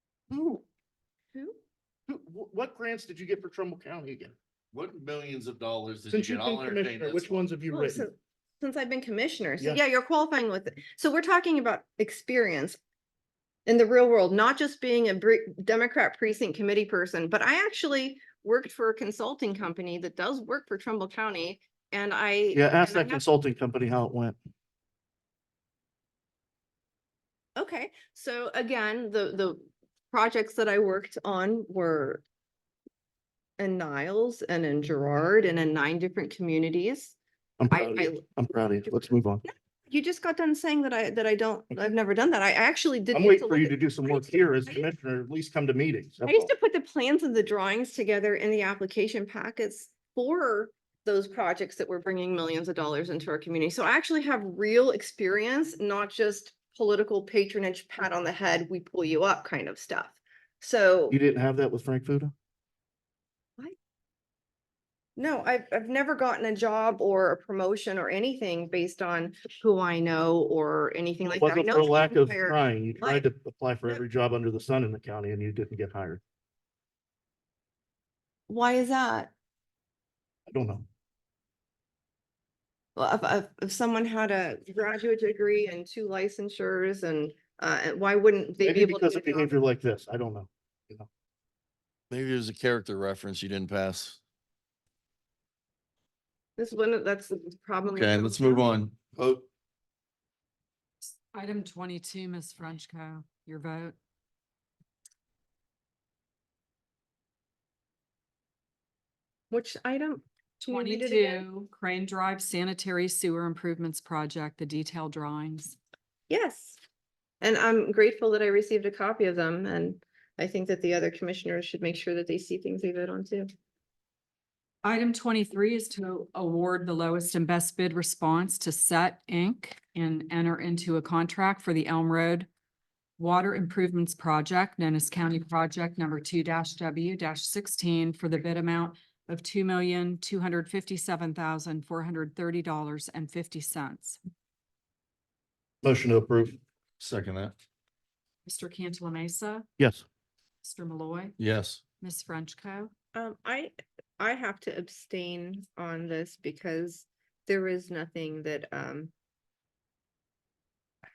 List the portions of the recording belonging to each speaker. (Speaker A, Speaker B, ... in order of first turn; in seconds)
Speaker A: 0.3-0.6, 2.1-4.3, 6.1-8.1, 22.5-24.4, 37.6-39.4, 43.1-46.5, 61.1-62.3, 71.3-76.2, 80.5-80.8, 88.6-91.1, 145.8-146.6, 149.8-150.0
Speaker B: 1.3-1.6, 7.7-12.8, 13.7-23.2, 27.6-32.2, 33.6-37.1, 37.7-38.2, 39.4-44.9, 46.2-61.1, 65.2-73.2, 78.5-79.3, 83.0-89.5, 96.6-98.7, 109.5-111.4, 116.3-116.8, 117.4-123.5, 153.1-159.1
Speaker C: 4.7-7.4, 92.1-94.2, 97.9-99.5, 147.0-147.5, 151.4-151.8
Speaker D: 101.3-104.0, 110.6-115.8, 124.8-132.5, 133.2-144.2, 148.4-149.7, 150.6-151.4, 152.0-152.9